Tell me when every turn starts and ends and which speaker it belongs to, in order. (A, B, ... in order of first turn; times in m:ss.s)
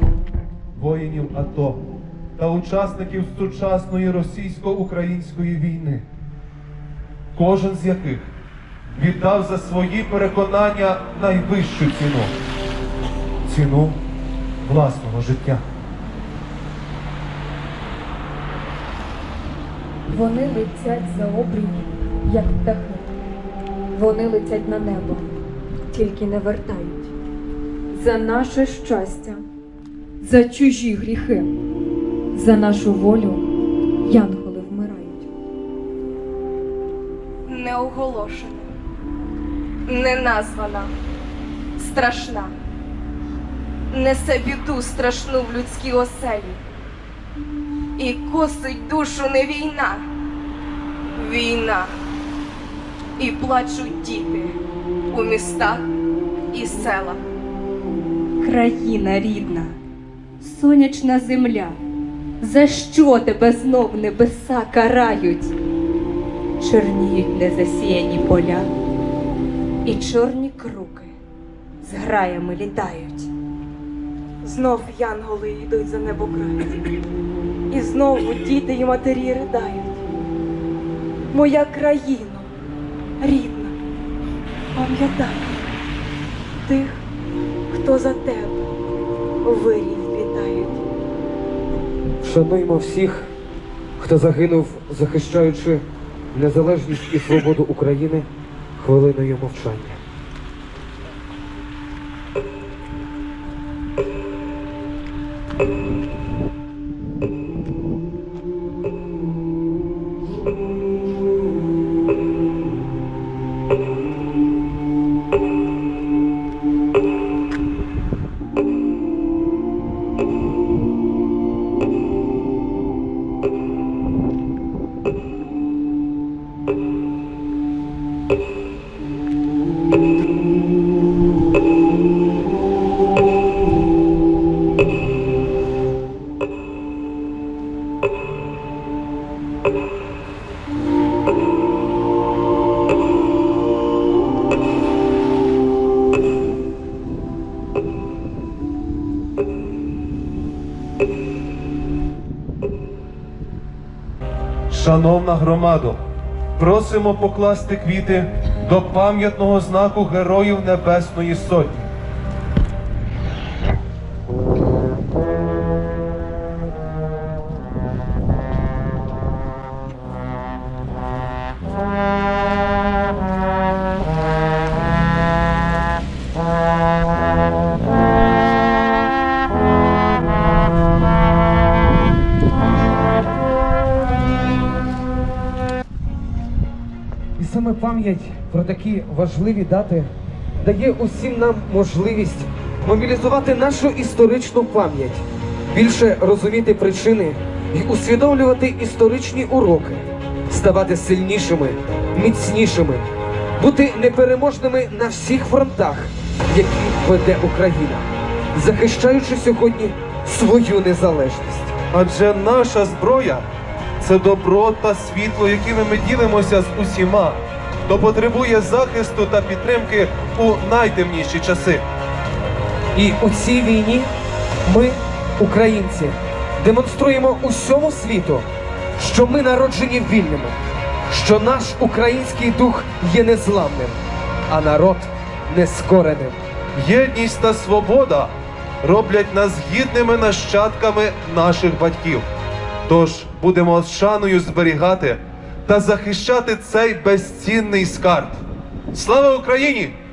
0:00.8-0:01.8 A
0:02.4-0:06.1 A
0:07.3-0:08.3 A
0:08.9-0:12.3 A
0:13.4-0:14.0 A
0:14.6-0:15.6 A
0:20.1-0:23.1 B
0:23.9-0:25.3 B
0:25.9-0:27.1 B
0:27.9-0:29.4 B
0:30.2-0:31.5 B
0:32.3-0:33.4 B
0:34.0-0:35.3 B
0:37.5-0:38.7 C
0:39.9-0:40.9 C
0:41.8-0:42.5 C
0:43.9-0:46.6 C
0:48.0-0:50.1 C
0:51.2-0:51.9 C
0:53.2-0:54.6 C
0:55.1-0:55.8 C
0:56.5-0:57.2 C
0:58.4-0:59.8 D
1:00.4-1:01.8 D
1:02.4-1:05.5 D
1:06.6-1:08.7 D
1:09.8-1:11.0 D
1:11.8-1:13.3 D
1:14.4-1:16.9 E
1:17.7-1:20.1 E
1:21.3-1:22.5 E
1:23.2-1:23.8 E
1:24.7-1:25.6 E
1:26.6-1:27.0 E
1:27.7-1:28.7 E
1:29.4-1:30.9 E
1:32.2-1:33.3 F
1:34.0-1:35.8 F
1:36.3-1:40.0 F
2:34.7-2:36.0 A
2:36.6-2:41.9 A
3:07.4-3:23.1 F
3:23.6-3:31.7 F
3:31.9-3:33.4 A
3:34.0-3:41.8 A
3:42.9-3:44.1 F
3:44.6-3:48.4 F
3:49.0-3:50.6 F
3:51.1-3:54.0 F
3:54.5-3:56.4 F
3:56.8-4:02.2 A
4:02.8-4:08.4 A
4:08.9-4:09.9 A